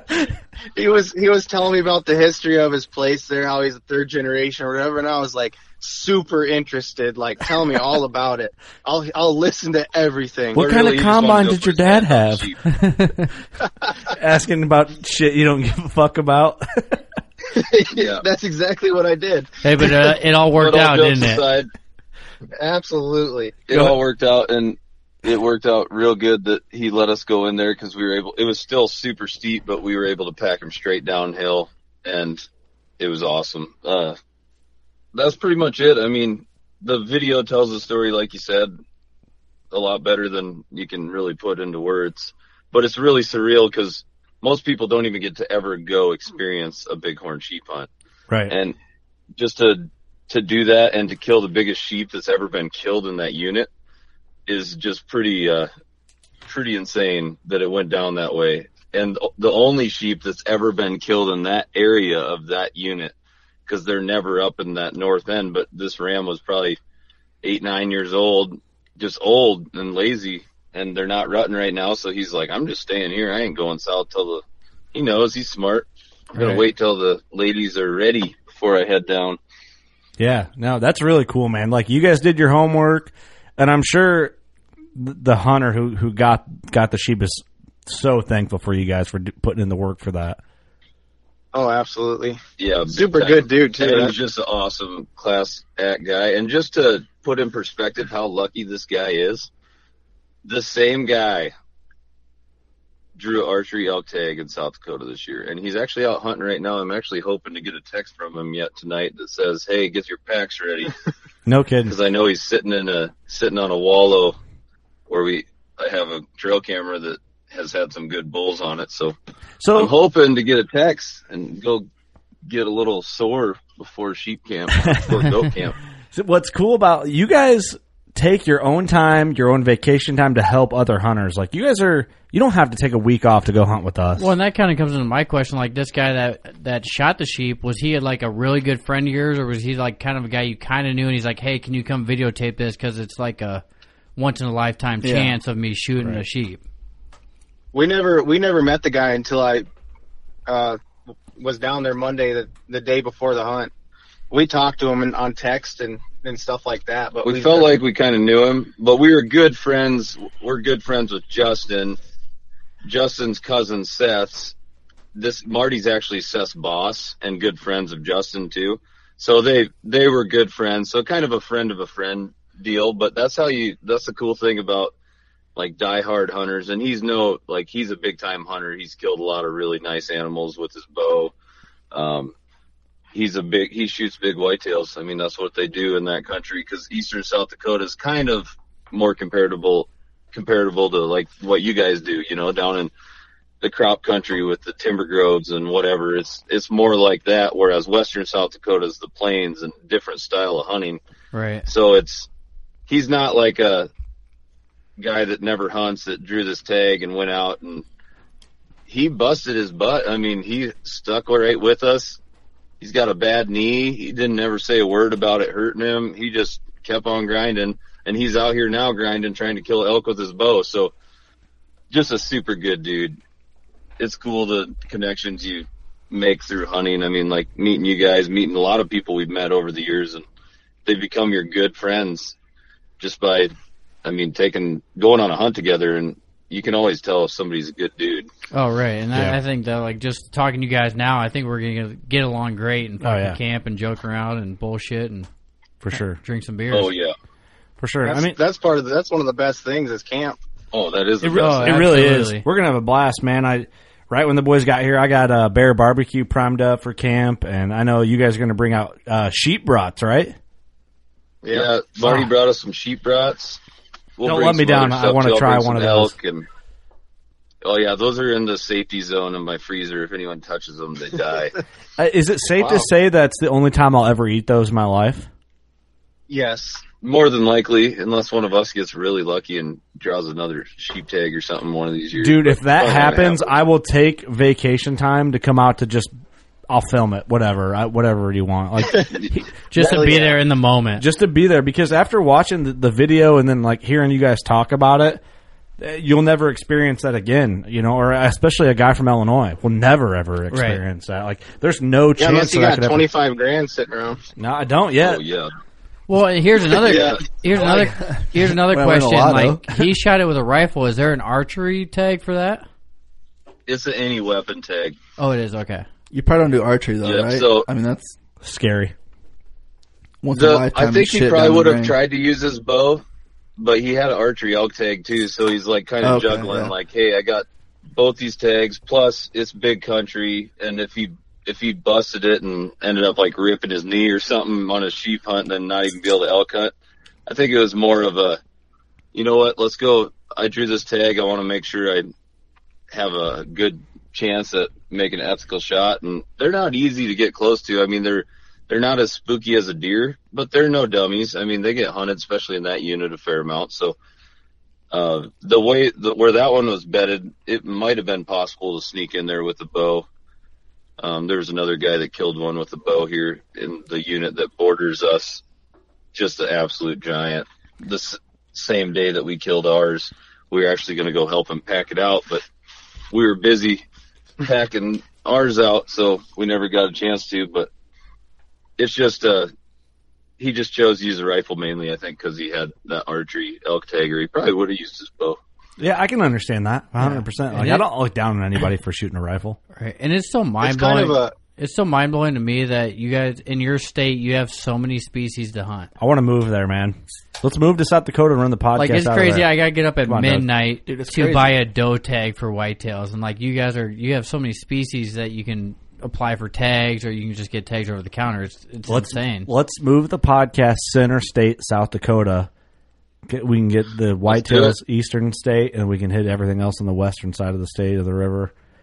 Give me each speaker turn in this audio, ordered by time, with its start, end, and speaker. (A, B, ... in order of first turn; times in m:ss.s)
0:00.8-0:10.6 A
0:10.5-0:12.5 B
0:10.6-0:12.6 C
0:12.9-0:13.2 D
0:14.1-0:17.0 B
0:17.5-0:19.9 A
0:18.0-0:18.2 C
0:19.6-0:21.4 D
0:20.6-0:21.7 C
0:22.6-0:23.6 A
0:23.7-0:32.4 C
0:23.7-0:24.0 B
0:33.0-0:34.2 C
0:35.1-0:38.7 C
0:39.7-0:47.9 C
0:48.3-0:48.5 B
0:48.5-0:48.7 C
0:49.4-0:53.7 C
0:54.5-0:55.7 C
0:56.5-1:03.1 C
1:03.7-1:06.8 C
1:07.4-1:14.4 C
1:14.9-1:19.4 C
1:16.4-1:16.6 D
1:20.2-1:24.3 B
1:25.0-1:30.4 B
1:31.5-1:32.4 A
1:32.6-1:39.5 C
1:32.9-1:34.1 A
1:40.4-1:41.5 C
1:43.2-1:50.9 C
1:51.4-1:51.9 B
1:51.9-1:54.4 C
1:55.1-1:59.1 C
1:59.6-1:59.9 B
1:59.7-2:01.8 C
2:02.5-2:05.8 C
2:04.8-2:05.1 B
2:06.1-2:14.3 B
2:14.2-2:23.6 D
2:24.2-2:26.6 D
2:25.0-2:25.4 E
2:27.7-2:29.7 A
2:30.5-2:30.8 A
2:31.4-2:33.7 A
2:34.3-2:37.7 A
2:37.2-2:42.0 C
2:42.8-2:44.5 C
2:45.1-2:54.9 C
2:55.6-3:01.3 C
3:01.9-3:02.3 C
3:03.1-3:12.9 C
3:13.6-3:21.0 C
3:21.3-3:21.7 D
3:21.6-3:22.3 C
3:22.9-3:23.9 C
3:25.0-3:27.8 C
3:28.9-3:32.2 C
3:32.8-3:40.9 C
3:41.9-3:43.2 C
3:44.0-3:50.2 C
3:50.8-3:52.3 C
3:53.0-3:53.5 C
3:54.0-3:58.3 C
3:58.5-4:05.3 D
4:03.0-4:03.4 B
4:05.8-4:06.2 B
4:05.9-4:06.9 D
4:06.7-4:07.1 C
4:07.8-4:08.3 B
4:08.0-4:10.4 A
4:10.7-4:11.8 C
4:11.2-4:20.3 B
4:11.3-4:12.4 D
4:21.4-4:21.7 A
4:21.5-4:23.6 C
4:24.2-4:26.5 C
4:24.2-4:26.1 B
4:27.6-4:31.5 C
4:32.0-4:35.3 B
4:32.6-4:32.8 A
4:36.3-4:36.8 A
4:37.0-4:43.5 C
4:42.2-4:46.1 B
4:46.7-4:49.5 B
4:48.9-4:49.2 A
4:49.7-4:51.0 D
4:49.8-4:50.4 A
4:51.0-4:55.2 B
4:55.8-5:03.1 B
5:00.5-5:00.8 D
5:02.2-5:04.2 A
5:04.4-5:05.2 B
5:05.0-5:05.5 C
5:06.1-5:12.6 D
5:06.7-5:07.3 C
5:07.6-5:09.8 E
5:13.7-5:15.0 C
5:15.2-5:15.8 D
5:16.1-5:18.2 E
5:17.0-5:17.7 C
5:18.4-5:18.9 B
5:20.2-5:21.9 E
5:20.3-5:23.0 C
5:23.6-5:36.7 C
5:26.0-5:26.7 E
5:37.3-5:38.4 C
5:39.1-5:42.1 C
5:42.9-5:54.0 C
5:54.9-6:00.1 C
6:01.0-6:05.4 C
6:06.1-6:12.4 C
6:13.1-6:13.8 C
6:14.4-6:17.7 C
6:18.8-6:19.5 C
6:20.4-6:25.4 C
6:25.8-6:29.6 B
6:27.0-6:27.8 D
6:29.7-6:35.9 D
6:30.6-6:31.4 A
6:36.0-6:39.5 B
6:38.7-6:49.5 D
6:40.0-6:40.5 B
6:40.8-6:41.6 E
6:48.9-6:52.5 B
6:53.3-6:58.5 B
6:54.3-6:54.8 C